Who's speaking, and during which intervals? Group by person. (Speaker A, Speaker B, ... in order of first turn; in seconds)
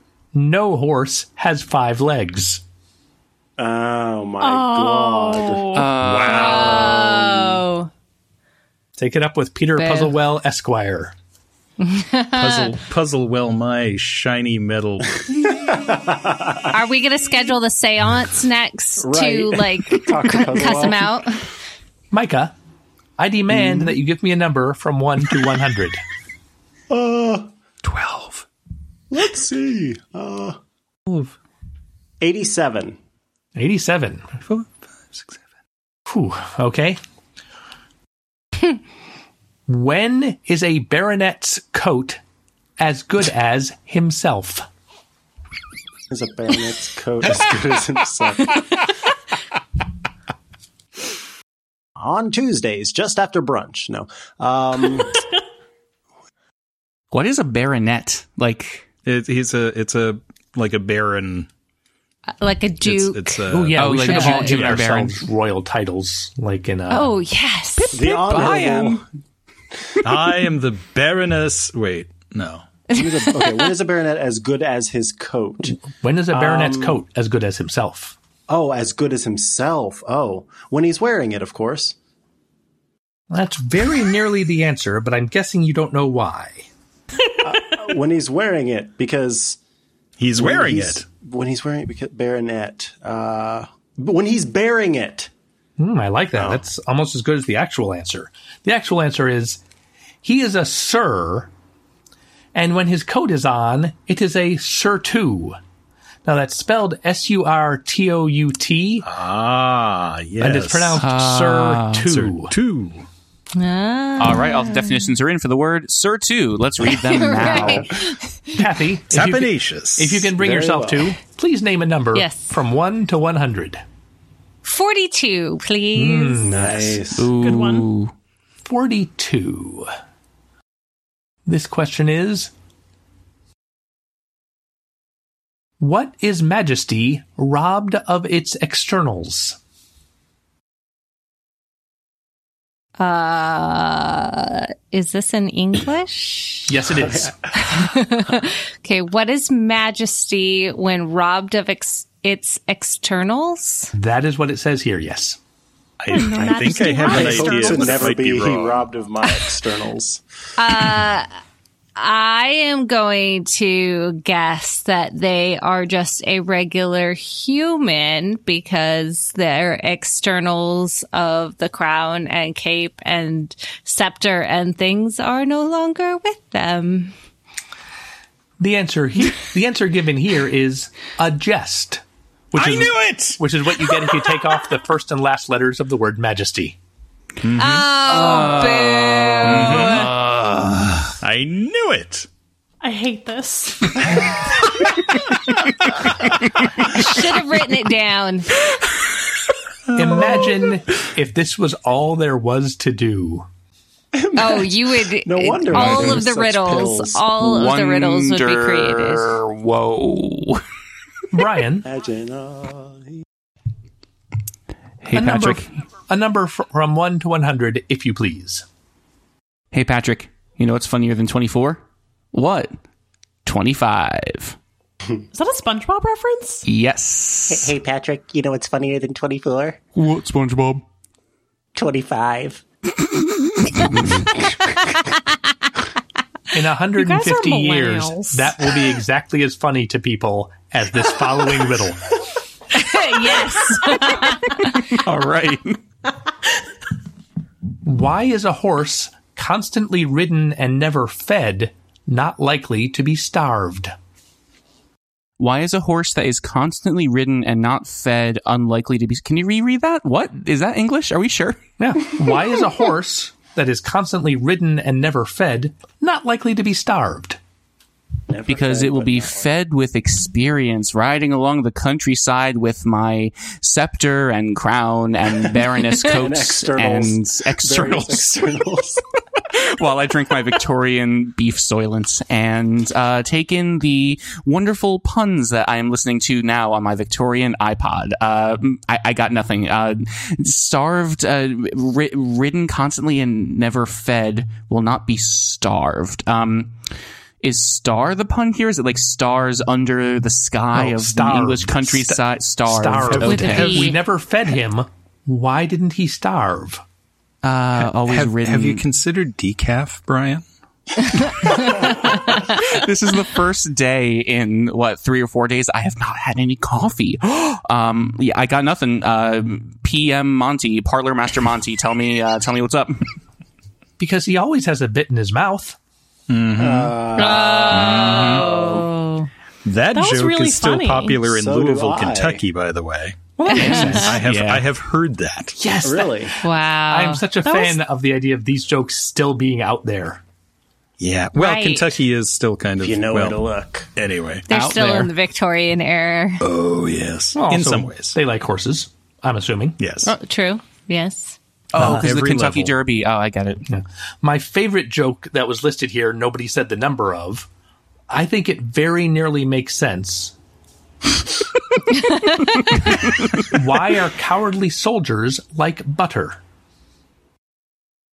Speaker A: 0.3-2.6, 9.0-11.1, 22.1-22.5, 23.2-26.0, 33.5-34.3, 36.1-37.0, 39.7-42.2, 42.8-44.6, 63.5-67.1, 75.8-78.2, 83.3-86.7, 95.8-99.6, 100.2-101.5, 102.5-105.6, 106.2-109.1, 110.4-112.5, 118.5-123.8, 125.9-126.9, 128.6-129.9, 131.4-132.5, 135.8-139.6, 146.7-147.3, 153.9-155.4, 178.6-186.8, 199.9-203.5, 211.3-211.9, 215.1-218.6, 236.5-242.1, 247.8-253.9, 261.8-267.4, 300.7-306.8, 324.0-325.8, 333.4-334.2, 335.6-336.3, 336.9-340.2, 347.3-349.8, 353.7-357.5, 358.1-360.3, 363.4-366.4
Speaker B: 3.6-5.8, 15.7-16.7, 19.0-21.1, 26.9-27.5, 29.1-30.6, 32.2-33.0, 46.1-48.9, 52.0-55.2, 67.9-69.0, 72.9-75.8, 76.3-77.0, 78.5-81.9, 87.4-89.6, 90.3-95.3, 96.3-96.6, 120.4-121.1, 126.4-127.3, 157.0-160.2, 204.1-207.3, 211.8-213.1, 268.3-269.5, 276.0-279.0, 326.6-328.9, 331.2-332.4, 335.8-336.3, 342.8-343.9
Speaker C: 4.4-5.9, 127.3-127.9, 156.1-158.0, 192.8-194.2, 225.3-226.7, 237.0-238.6, 329.9-331.2, 337.4-337.8
Speaker D: 5.7-7.1, 57.1-58.9, 63.8-65.2, 67.8-69.0, 111.0-112.1, 114.2-118.0, 127.1-128.1, 188.0-190.9, 205.7-206.2, 207.4-210.6, 215.0-215.7, 219.7-221.8, 222.3-222.8, 223.4-224.6, 226.7-227.7, 229.9-230.8, 244.9-245.8, 255.4-261.6, 268.5-278.3, 279.4-296.8, 297.4-303.9, 307.4-308.8, 311.4-323.1, 327.8-328.2, 333.5-334.6, 344.5-345.1, 351.7-353.6
Speaker E: 6.0-7.2, 12.3-15.2, 27.8-28.5, 31.1-31.3, 34.4-35.4, 59.0-61.5, 62.8-64.2, 70.0-72.7, 90.2-91.0, 109.0-111.0, 112.0-113.0, 119.1-120.3, 156.0-158.9, 182.5-183.4, 187.4-188.7, 189.4-192.3, 303.1-303.6, 307.8-310.4, 326.3-327.0, 327.7-328.4, 329.6-335.6, 341.0-343.4, 343.9-344.5, 346.4-348.1, 349.8-350.1, 351.7-352.8
Speaker F: 6.0-7.9, 9.8-10.1, 11.8-12.7, 16.7-21.4, 62.4-63.5, 64.0-64.6, 66.9-68.4, 72.9-73.7, 113.5-115.1, 116.8-118.6, 122.1-122.5, 124.6-126.6, 143.0-146.7, 147.5-153.9, 160.6-161.3, 161.9-177.1, 187.5-190.1, 196.8-198.7, 204.3-209.3, 242.7-244.9, 303.2-304.0, 327.2-329.3, 336.4-337.2, 341.4-341.9, 344.5-346.4, 350.0-351.4, 362.0-362.7
Speaker G: 227.5-229.8, 231.7-232.6